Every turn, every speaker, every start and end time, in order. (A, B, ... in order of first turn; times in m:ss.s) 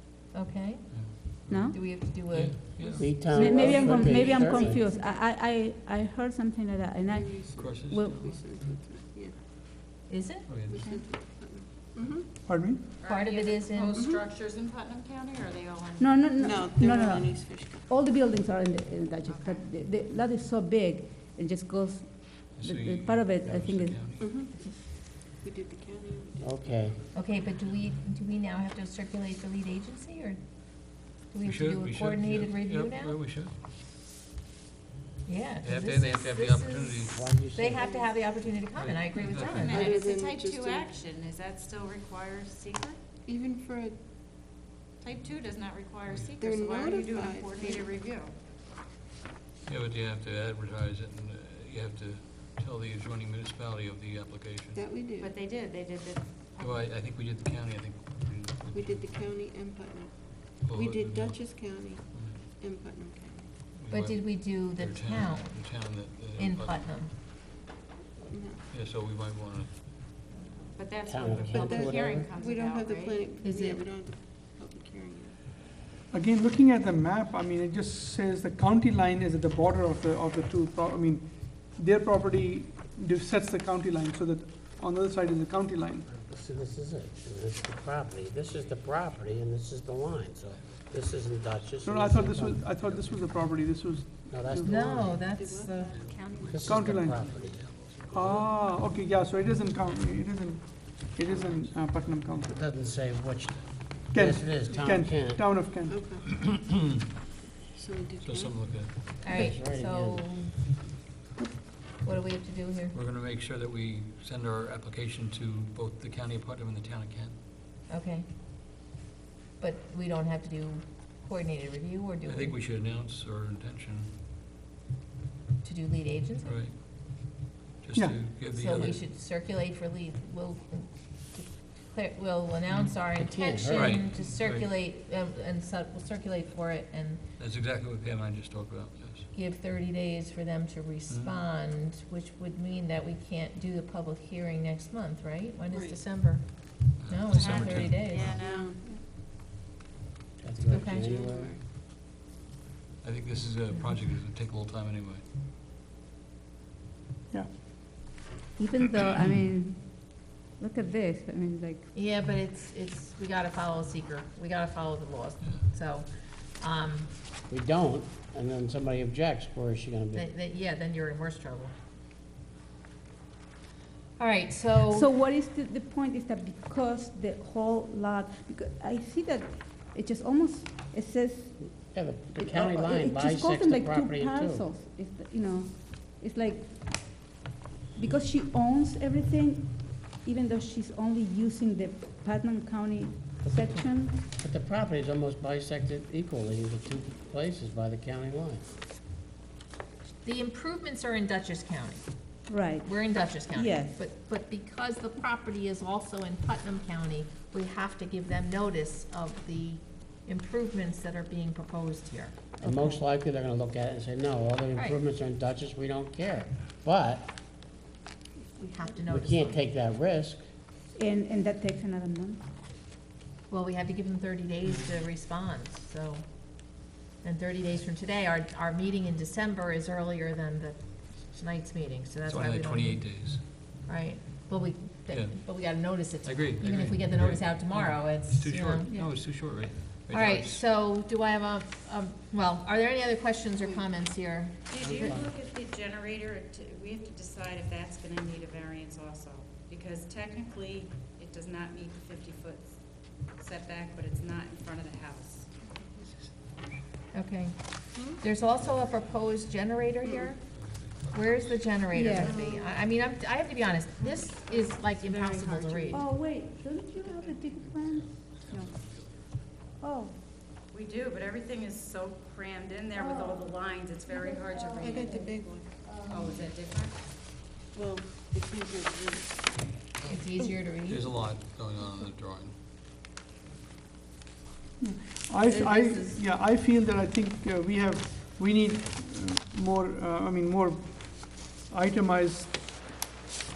0:00.3-0:04.4 A
0:00.9-0:03.3 B
0:01.5-0:01.8 C
0:02.8-0:05.2 D
0:02.8-0:04.8 E
0:03.2-0:08.2 C
0:07.1-0:09.4 F
0:07.6-0:08.4 B
0:10.1-0:10.5 A
0:10.4-0:10.8 B
0:10.7-0:12.3 F
0:12.5-0:12.8 G
0:13.0-0:16.2 D
0:13.0-0:14.0 A
0:13.9-0:14.2 F
0:16.0-0:24.1 C
0:16.4-0:17.9 F
0:19.2-0:19.7 D
0:22.5-0:24.3 B
0:24.2-0:26.7 F
0:26.4-0:27.0 E
0:27.1-0:33.2 A
0:31.4-0:33.5 B
0:35.3-0:40.0 A
0:35.6-0:37.6 B
0:37.1-0:37.9 E
0:37.8-0:38.1 F
0:38.7-0:39.8 B
0:39.2-0:43.0 D
0:39.7-0:40.9 F
0:43.3-0:44.0 F
0:45.0-0:48.4 D
0:46.1-0:46.3 B
0:46.4-0:47.9 F
0:49.7-0:54.9 B
0:54.8-0:55.3 F
0:55.2-0:56.8 D
0:56.6-0:59.2 B
0:58.7-1:03.5 F
1:00.6-1:01.4 B
1:02.1-1:02.4 B
1:03.8-1:07.0 B
1:03.9-1:05.8 A
1:06.4-1:07.1 A
1:08.3-1:08.6 F
1:08.7-1:09.9 B
1:10.8-1:13.3 D
1:11.1-1:12.3 E
1:11.5-1:15.4 F
1:13.4-1:13.9 A
1:16.1-1:26.1 G
1:26.3-1:32.8 E
1:30.5-1:30.9 B
1:31.8-1:35.0 G
1:32.8-1:33.2 B
1:34.3-1:35.2 E
1:34.6-1:36.0 A
1:35.3-1:36.7 F
1:35.9-1:38.6 B
1:36.0-1:36.5 C
1:36.4-1:38.4 E
1:36.6-1:37.2 G
1:38.1-1:42.6 G
1:41.0-1:42.2 B
1:42.5-1:45.4 E
1:42.7-1:44.0 B
1:44.1-1:46.0 G
1:45.9-1:46.3 F
1:46.3-1:47.0 B
1:47.7-1:48.7 F
1:48.2-1:49.2 B
1:49.2-1:50.5 A
1:49.3-1:50.5 E
1:52.0-1:53.0 A
1:52.9-1:57.4 B
1:57.9-1:58.3 A
1:59.6-2:02.6 A
2:02.3-2:04.1 B
2:05.6-2:06.6 A
2:06.4-2:06.8 B
2:07.8-2:09.0 B
2:08.0-2:08.2 G
2:08.5-2:17.2 A
2:13.2-2:14.0 E
2:13.7-2:14.7 B
2:17.4-2:19.3 B
2:19.3-2:28.4 A
2:21.1-2:21.4 B
2:25.7-2:26.0 F
2:27.0-2:28.4 B
2:27.3-2:28.8 D
2:28.1-2:29.0 F
2:30.4-2:31.6 E
2:30.7-2:31.1 A
2:30.8-2:31.6 F
2:33.0-2:35.2 B
2:33.7-2:34.0 A
2:38.6-2:41.9 C
2:41.9-2:47.1 A
2:47.5-2:50.3 E
2:50.1-2:51.7 A
2:54.2-2:55.1 A
2:54.8-3:07.4 C
3:01.9-3:04.6 E
3:08.0-3:14.3 C
3:14.4-3:18.6 E
3:20.2-3:22.0 A
3:22.5-3:24.0 C
3:22.8-3:32.4 A
3:32.6-3:33.0 C
3:32.6-3:37.3 E
3:34.8-3:35.0 A
3:38.6-3:39.6 A
3:39.1-3:40.4 E
3:40.9-3:42.5 C
3:43.5-3:58.9 A
3:52.2-3:53.4 B
3:55.1-4:00.6 B
3:58.9-3:59.1 C
4:00.1-4:05.1 A
4:04.7-4:15.6 D
4:04.8-4:05.3 E
4:15.6-4:16.1 F
4:17.1-4:20.4 A
4:18.0-4:18.2 F
4:18.5-4:19.3 B
4:20.0-4:20.3 F
4:20.4-4:21.9 B
4:21.1-4:26.0 A
4:21.9-4:22.4 C
4:22.1-4:22.7 F
4:24.0-4:26.0 F
4:25.9-4:28.7 C
4:26.9-4:27.6 D
4:27.9-4:29.4 B
4:29.8-4:30.2 C
4:30.7-4:35.2 D
4:32.9-4:33.6 C
4:34.1-4:36.5 C
4:34.8-4:35.8 F
4:36.1-4:37.0 D
4:37.7-4:39.8 F
4:40.0-4:41.0 A
4:40.8-4:42.5 B
4:44.8-4:52.9 G
4:45.5-4:46.2 D